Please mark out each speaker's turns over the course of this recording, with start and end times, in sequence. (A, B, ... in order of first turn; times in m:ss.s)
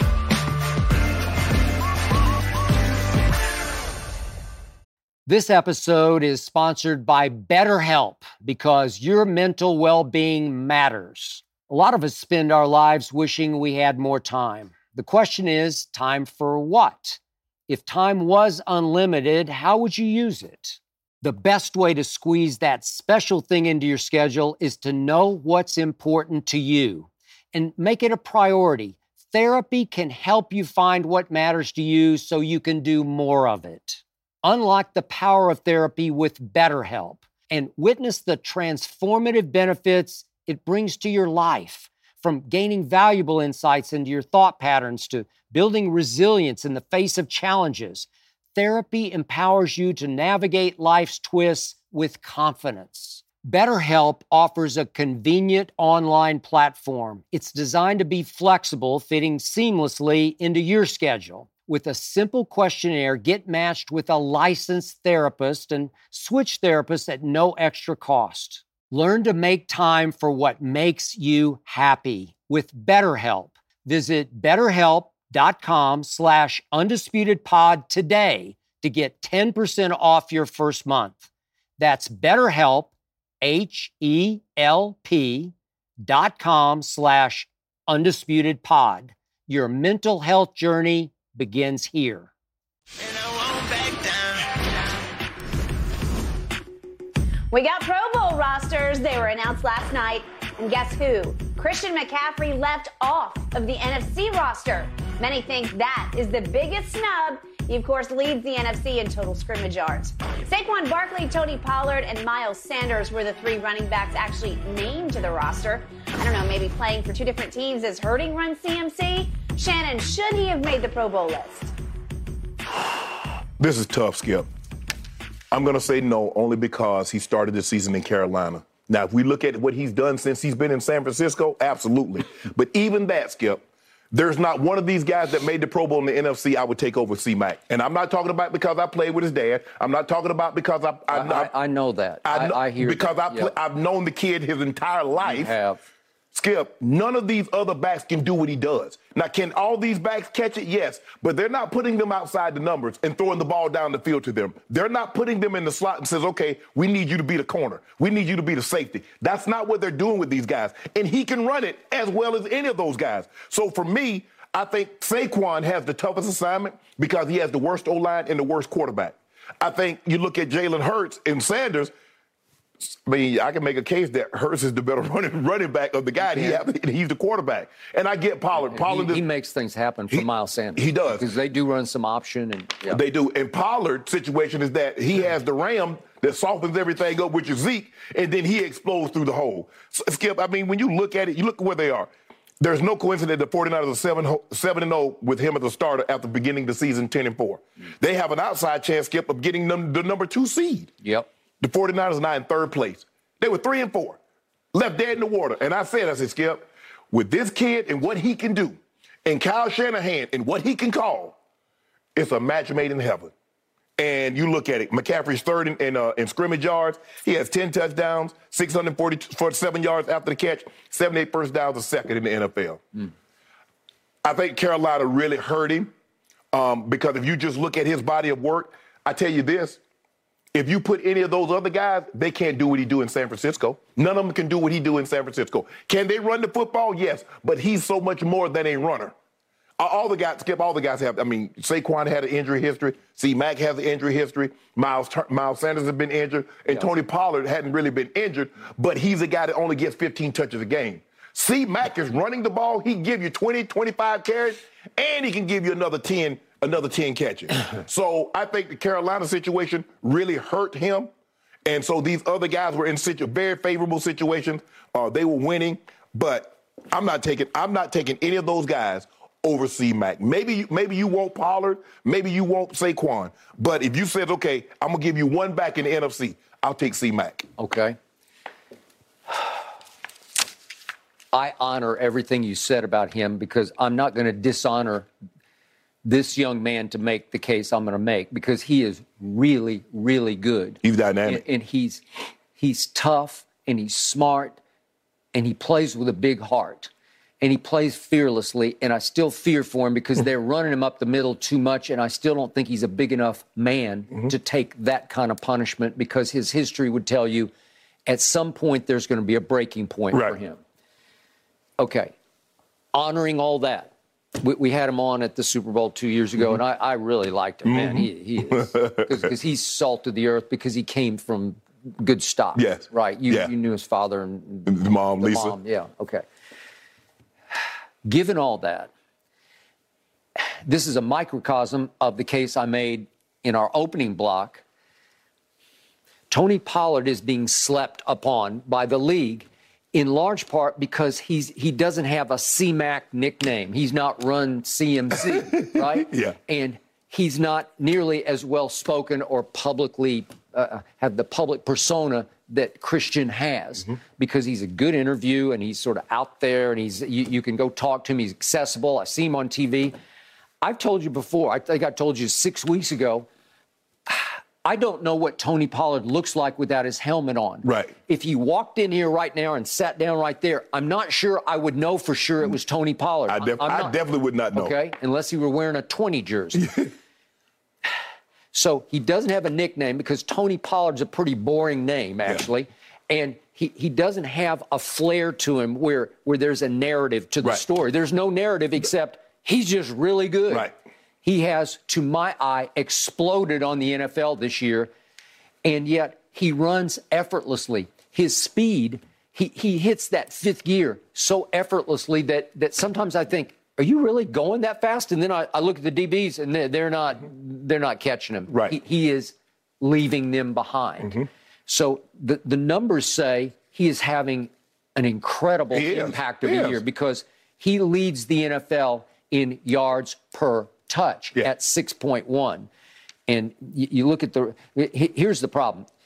0:05.2-1:21.2 A
1:21.8-1:32.3 A
1:37.5-2:01.7 B
2:03.6-2:04.5 C
2:05.5-2:21.5 C
2:21.1-2:23.5 A
2:22.2-2:25.5 C
2:25.2-2:25.8 A
2:26.3-2:51.9 C
2:52.8-2:59.2 C
2:56.2-2:56.6 A
2:58.6-3:03.0 A
3:00.1-3:01.2 C
3:02.9-3:20.9 C
3:21.0-3:21.3 A
3:21.6-3:24.2 C
3:24.7-3:31.4 C
3:32.1-3:33.3 C
3:34.0-3:42.8 C
3:44.2-3:45.9 C
3:46.5-3:49.8 C
3:50.5-3:59.1 C
3:59.8-4:21.1 C
4:21.6-4:37.5 C
4:37.6-4:38.0 A
4:41.3-4:45.1 A
4:46.0-4:52.0 A
4:50.8-4:51.4 C
4:52.6-4:54.6 A
4:55.3-4:56.9 A
4:57.4-5:07.5 A
5:08.1-5:10.6 A
5:10.1-5:10.4 C
5:11.8-5:12.1 A
5:12.9-5:26.2 A
5:17.6-5:19.3 C
5:22.5-5:23.5 C
5:24.6-5:25.6 C
5:28.0-5:28.9 A
5:30.4-5:34.6 A
5:36.3-5:59.9 A
5:45.1-5:46.4 C
6:00.6-6:03.3 A
6:04.1-6:14.0 A
6:07.6-6:07.9 C
6:13.3-6:14.8 C
6:14.5-6:16.7 A
6:16.5-6:16.9 C
6:18.5-6:30.7 A
6:31.2-6:34.9 A
6:35.6-7:02.7 A
6:48.5-6:48.8 C
6:55.7-6:56.8 C
7:03.3-7:05.9 A